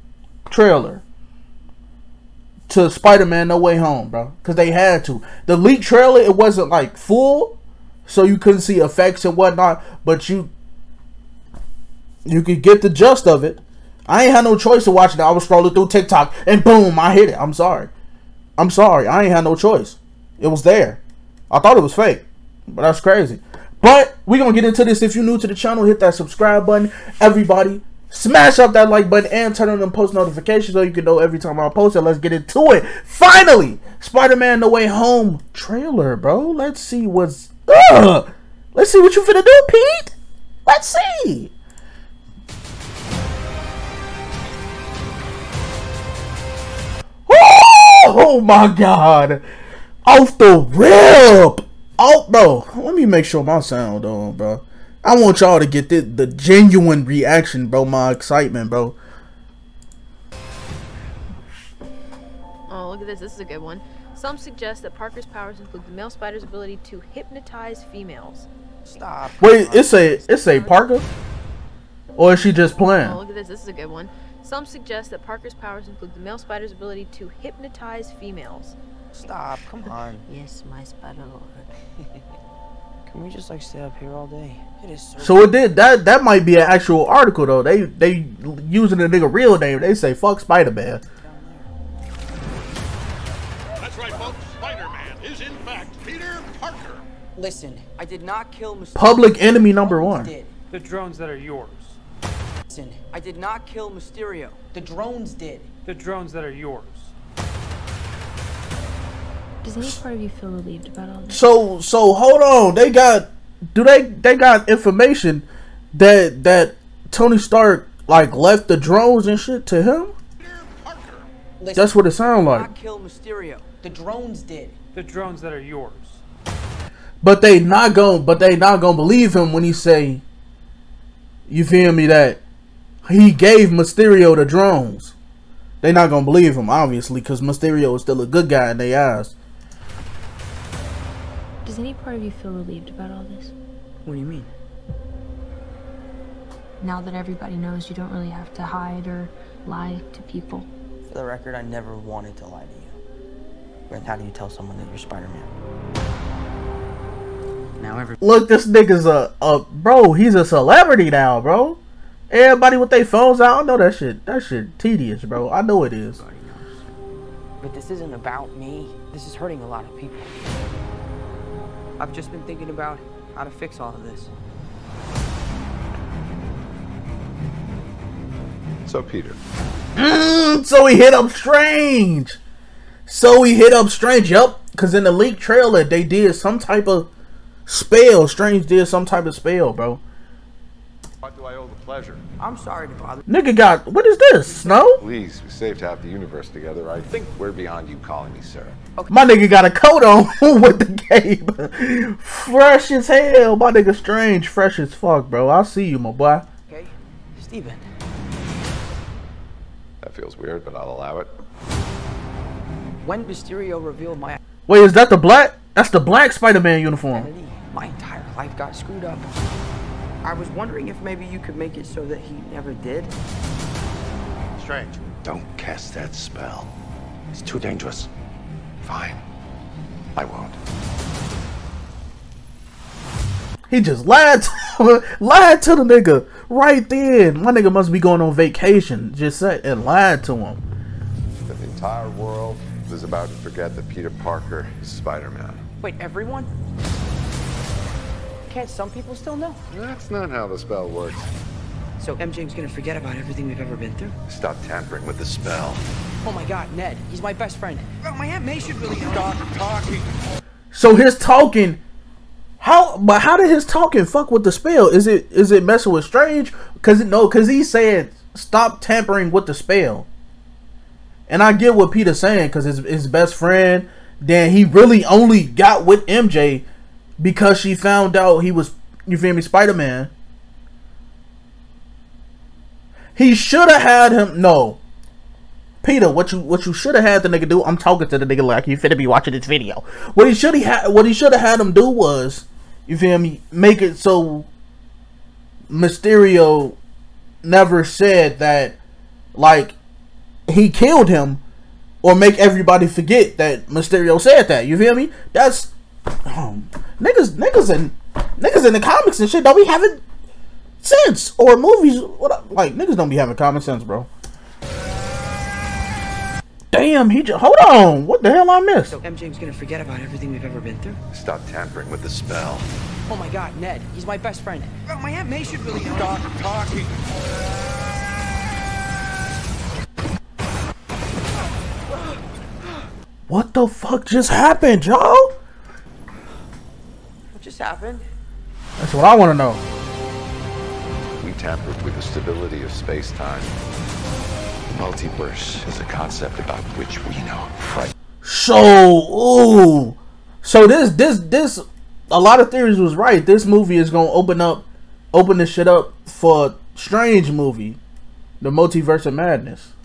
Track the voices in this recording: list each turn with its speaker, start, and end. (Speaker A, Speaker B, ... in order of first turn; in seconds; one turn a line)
Speaker A: 0.5-1.0
Speaker A: 2.7-10.5
Speaker A: 12.3-17.9
Speaker A: 18.6-40.1
Speaker A: 40.7-41.5
Speaker A: 47.3-49.4
Speaker A: 50.0-59.0
Speaker B: 62.7-68.5
Speaker C: 68.8-70.3
Speaker A: 69.4-71.0
Speaker A: 72.2-73.2
Speaker B: 73.0-78.8
Speaker C: 79.1-80.3
Speaker D: 80.3-81.6
Speaker C: 83.1-85.5
Speaker A: 85.2-91.0
Speaker C: 91.1-91.7
Speaker E: 93.8-97.0
Speaker C: 97.4-100.5
Speaker A: 99.0-100.3
Speaker F: 100.7-102.0
Speaker C: 102.7-105.7
Speaker F: 105.8-107.1
Speaker D: 109.6-111.5
Speaker A: 111.3-120.1
Speaker E: 120.5-121.3
Speaker C: 121.6-124.8
Speaker A: 121.8-122.7
Speaker F: 124.9-126.2
Speaker A: 127.2-130.2
Speaker A: 131.5-132.4
Speaker A: 133.1-135.1
Speaker A: 135.8-139.3
Speaker D: 141.7-143.5
Speaker C: 144.1-144.5
Speaker D: 146.8-150.7
Speaker C: 151.1-153.0
Speaker C: 153.9-155.5
Speaker C: 157.8-158.2
Speaker A: 158.2-161.8
Speaker A: 162.3-166.2
Speaker C: 166.2-166.8
Speaker C: 167.6-170.3
Speaker C: 172.0-174.3
Speaker G: 178.9-179.4
Speaker A: 180.0-182.4
Speaker A: 183.1-187.1
Speaker A: 187.7-190.0
Speaker G: 191.2-192.2
Speaker C: 192.4-193.2
Speaker A: 193.3-195.0
Speaker G: 195.0-198.8
Speaker C: 199.0-199.3
Speaker A: 199.1-206.4
Speaker C: 206.7-207.8
Speaker G: 210.0-211.3
Speaker C: 213.0-214.4
Speaker A: 214.7-217.3
Speaker C: 217.1-219.3
Speaker C: 220.2-223.2
Speaker G: 225.2-226.7
Speaker G: 227.3-228.1
Speaker G: 228.8-229.2
Speaker G: 230.2-230.6
Speaker A: 233.7-240.6
Speaker G: 241.5-245.6
Speaker C: 245.8-246.5
Speaker C: 248.5-249.6
Speaker G: 249.7-251.3
Speaker C: 252.0-254.2
Speaker G: 254.3-255.8
Speaker C: 256.2-260.1
Speaker A: 260.7-261.8
Speaker A: 262.6-270.1
Speaker A: 271.3-276.6
Speaker A: 277.2-280.1
Speaker A: 283.2-284.8
Speaker A: 285.8-294.5
Speaker A: 295.7-296.8
Speaker A: 297.4-298.8
Speaker A: 299.4-299.8
Speaker A: 300.5-301.4
Speaker A: 302.0-305.7
Speaker A: 306.2-310.0
Speaker A: 310.8-314.1
Speaker A: 316.7-319.0
Speaker C: 318.9-321.0
Speaker G: 321.1-322.7
Speaker C: 323.1-326.9
Speaker C: 331.9-332.2
Speaker A: 333.3-335.3
Speaker C: 337.3-338.1
Speaker A: 338.8-339.6
Speaker G: 341.2-343.6
Speaker G: 344.7-347.9
Speaker A: 348.2-357.8
Speaker A: 358.4-359.7